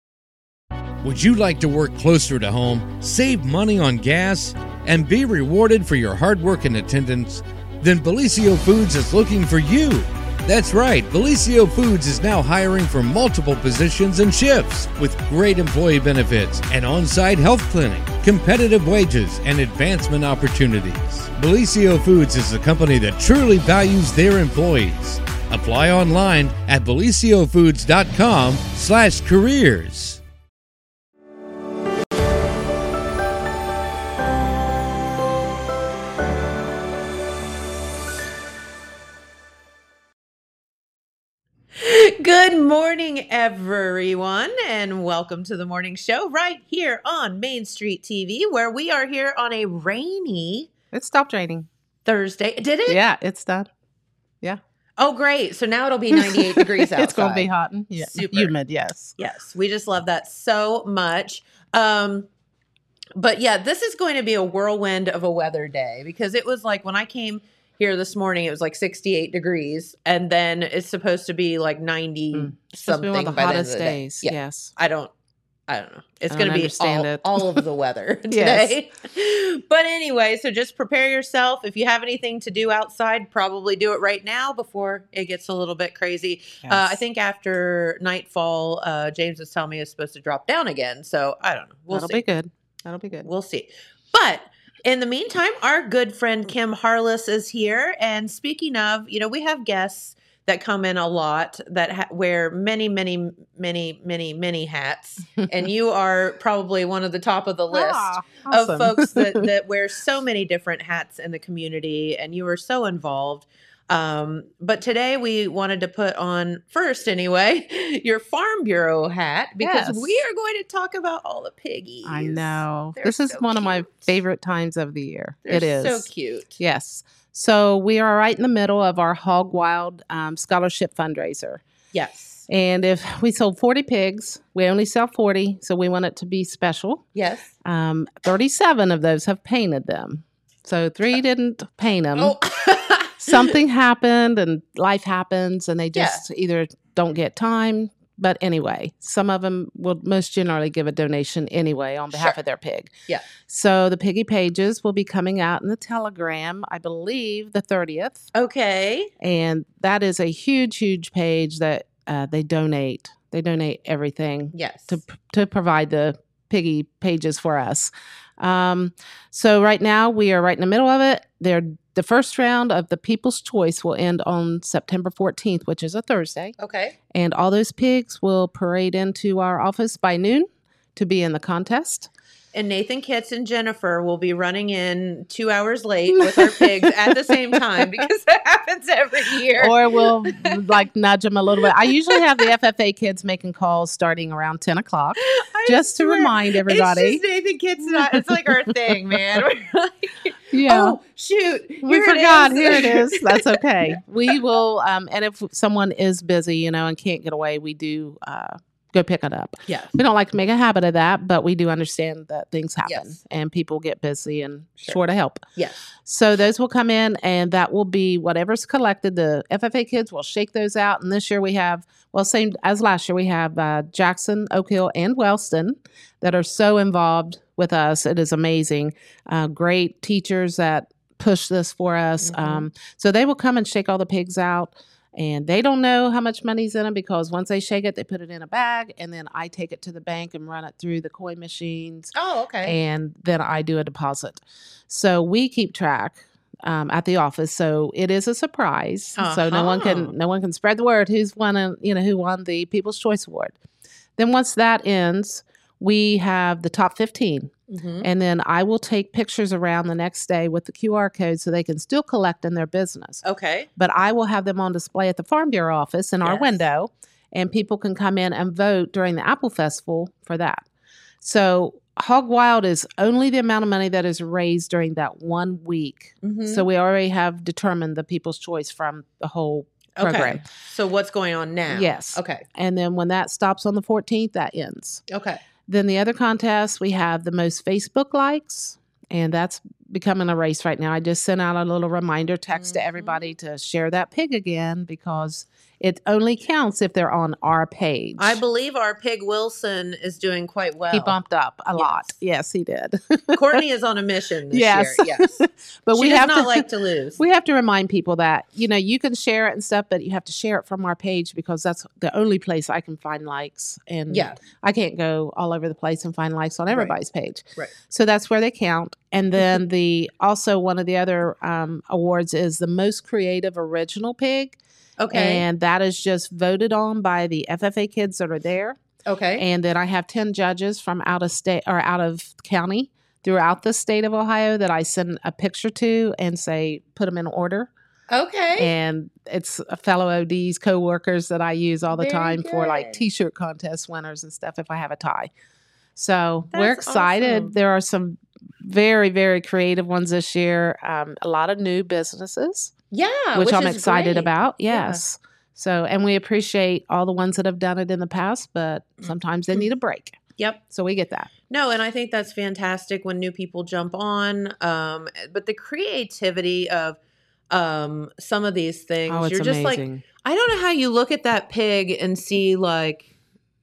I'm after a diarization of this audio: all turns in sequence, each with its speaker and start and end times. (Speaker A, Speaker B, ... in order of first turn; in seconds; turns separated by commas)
Speaker A: 1.0-30.2, Speaker B: 41.7-50.7, Speaker C: 50.9-51.7, Speaker B: 52.1-53.0, Speaker C: 52.9-53.7, Speaker B: 55.0-57.5, Speaker C: 56.1-59.2, Speaker B: 58.0-58.5, Speaker B: 59.2-62.3, Speaker B: 63.2-75.1, Speaker C: 72.3-74.7, Speaker B: 75.7-92.2, Speaker C: 76.3-77.6, Speaker C: 78.3-78.8, Speaker C: 86.7-87.0, Speaker C: 91.9-93.3, Speaker B: 93.2-124.1, Speaker C: 107.7-109.5, Speaker C: 119.6-120.2, Speaker C: 122.0-126.1, Speaker B: 125.5-126.6, Speaker C: 126.6-131.6, Speaker B: 131.9-132.5, Speaker C: 132.5-137.1, Speaker B: 137.2-137.5, Speaker C: 137.7-142.4, Speaker B: 142.2-143.5, Speaker C: 143.2-152.9, Speaker B: 145.9-146.2, Speaker C: 153.5-158.2, Speaker B: 158.3-159.1, Speaker C: 159.2-176.6, Speaker B: 164.6-165.0, Speaker B: 176.6-177.0, Speaker C: 177.1-182.1, Speaker B: 182.5-190.7, Speaker C: 186.1-188.1, Speaker C: 189.6-197.2, Speaker B: 191.8-192.5, Speaker B: 195.2-204.3, Speaker C: 197.9-199.2, Speaker C: 200.5-201.0, Speaker C: 201.8-215.5, Speaker B: 209.7-210.0, Speaker B: 212.9-213.2, Speaker B: 215.6-215.8, Speaker C: 216.0-242.1, Speaker B: 232.2-232.7, Speaker B: 242.2-242.8, Speaker C: 242.6-253.6, Speaker B: 249.2-250.1, Speaker C: 254.2-263.2, Speaker B: 257.7-258.1, Speaker B: 263.2-263.7, Speaker C: 263.8-270.7, Speaker B: 266.2-266.6, Speaker C: 271.2-280.4, Speaker B: 276.2-276.7, Speaker B: 280.0-282.4, Speaker C: 281.7-285.0, Speaker B: 285.1-285.4, Speaker C: 285.7-298.4, Speaker B: 292.5-293.2, Speaker B: 298.2-301.2, Speaker C: 300.9-303.6, Speaker B: 301.8-302.1, Speaker B: 303.3-307.2, Speaker C: 304.5-324.6, Speaker B: 314.1-314.4, Speaker B: 316.7-317.0, Speaker B: 325.0-325.5, Speaker C: 325.1-328.8, Speaker B: 329.1-329.4, Speaker C: 329.4-337.7, Speaker B: 338.1-338.7, Speaker C: 338.6-345.3, Speaker B: 341.9-343.0, Speaker C: 346.0-352.7, Speaker B: 346.5-347.5, Speaker B: 352.9-355.0, Speaker C: 353.4-360.2, Speaker B: 359.0-359.6, Speaker C: 360.7-361.3, Speaker B: 361.5-367.0, Speaker B: 367.5-373.1, Speaker C: 369.1-370.0